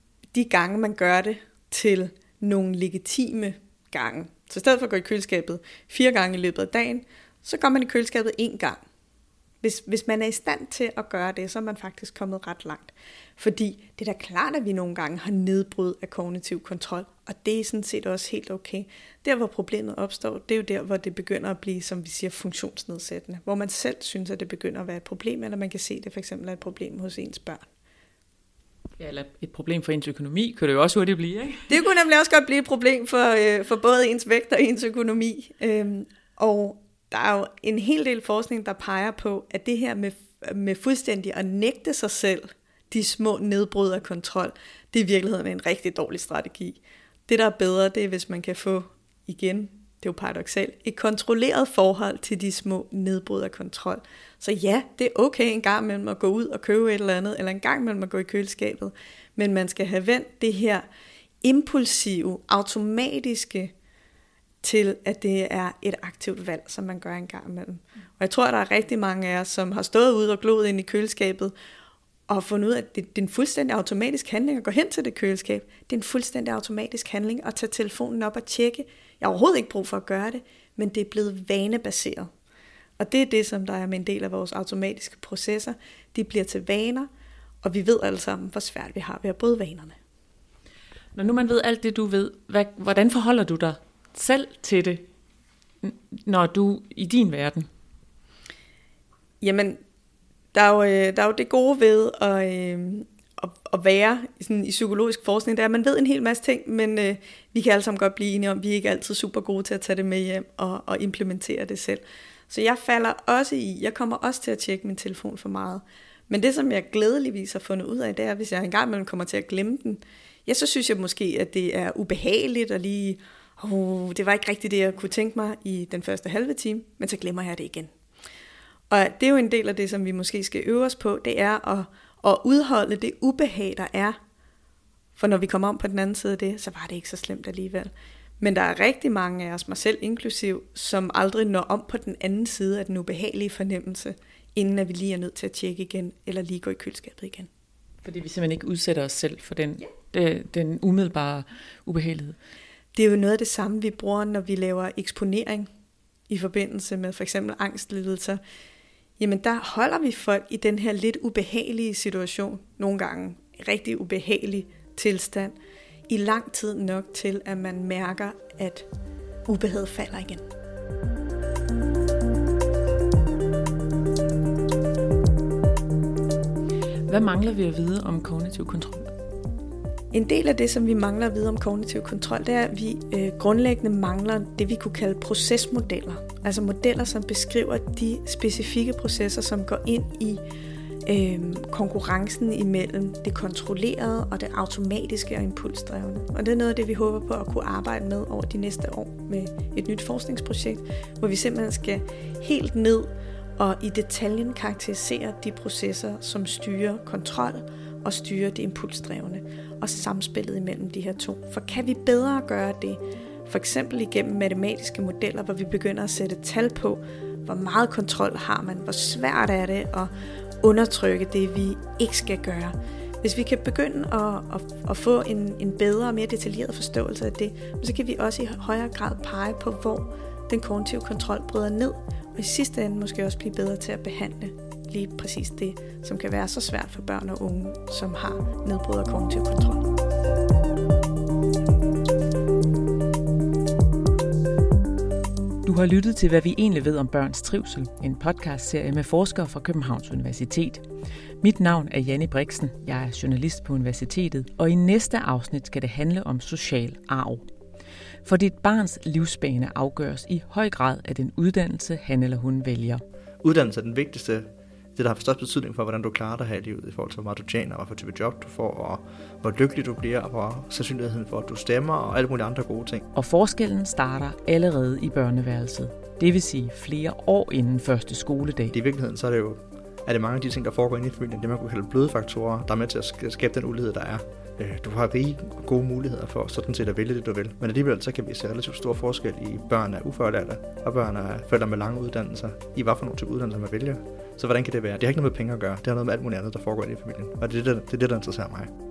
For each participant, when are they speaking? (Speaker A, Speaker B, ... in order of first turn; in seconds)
Speaker A: 0.3-8.8, 9.6-27.7, 31.7-60.9, 61.4-63.7, 64.6-71.5, 72.3-82.3, 83.0-87.1, 87.6-90.0, 99.4-99.8, 100.5-127.9, 128.9-134.2, 135.2-147.5, 152.9-155.7, 156.3-158.4, 159.2-165.5, 166.1-168.9, 169.4-170.4, 180.1-190.4, 191.1-239.9
Speaker B: 29.0-31.8, 91.1-95.1, 95.8-97.7, 148.0-152.3, 177.1-179.1, 245.6-250.9, 251.4-257.4, 258.2-263.0, 273.1-278.7
Speaker C: 263.4-273.1, 278.7-298.7